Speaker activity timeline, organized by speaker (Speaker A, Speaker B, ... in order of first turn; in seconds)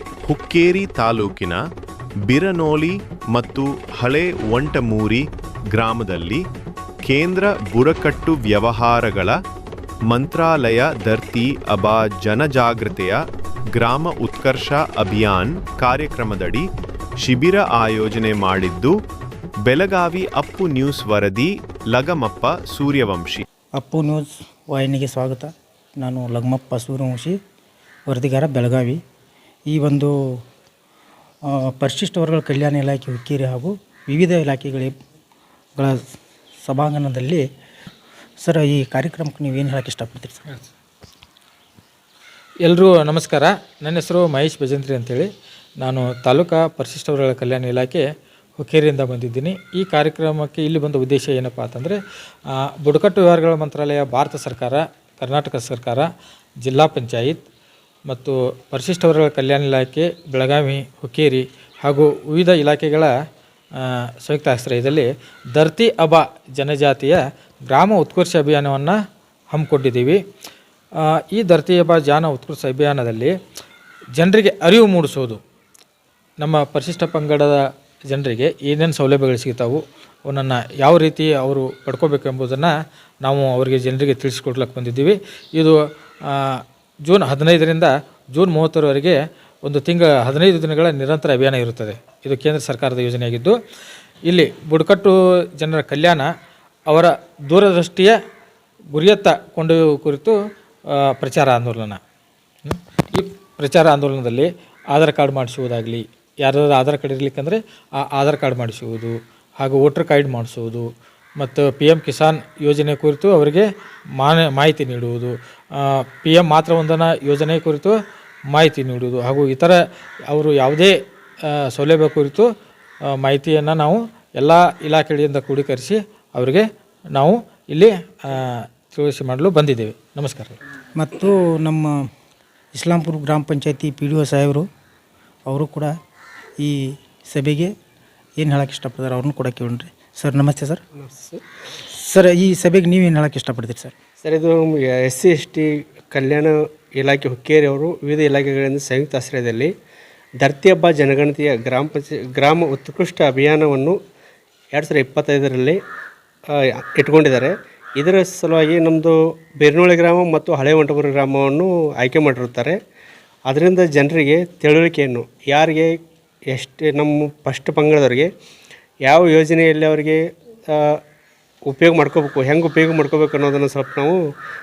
Speaker A: 0.2-1.6, 2.2-6.4, 7.0-9.4, 10.1-13.2, 13.8-16.7, 17.2-19.0, 19.6-23.5
Speaker B: 23.8-27.4, 28.1-29.0, 29.7-30.1, 31.5-34.9, 35.8-36.0, 36.6-37.4, 38.4-40.5, 131.0-131.9, 132.7-134.7, 135.5-135.9, 136.6-137.7, 138.4-140.8, 141.9-143.9
Speaker C: 42.6-48.0, 48.6-52.0, 52.7-56.1, 56.6-57.4, 58.1-63.1, 63.8-69.0, 69.5-70.2, 71.0-73.3, 74.2-75.4, 76.4-82.7, 83.2-93.6, 94.3-96.3, 96.9-98.2, 98.9-100.4, 101.0-102.0, 102.7-107.6, 108.1-110.9, 111.4-113.7, 114.2-118.0, 118.5-119.8, 120.3-121.0, 121.5-122.5, 123.1-130.6
Speaker D: 141.0-141.4, 144.2-149.7, 150.4-154.0, 154.7-155.8, 156.5-162.8, 163.5-165.9, 166.5-168.3, 169.0-171.0, 171.7-174.2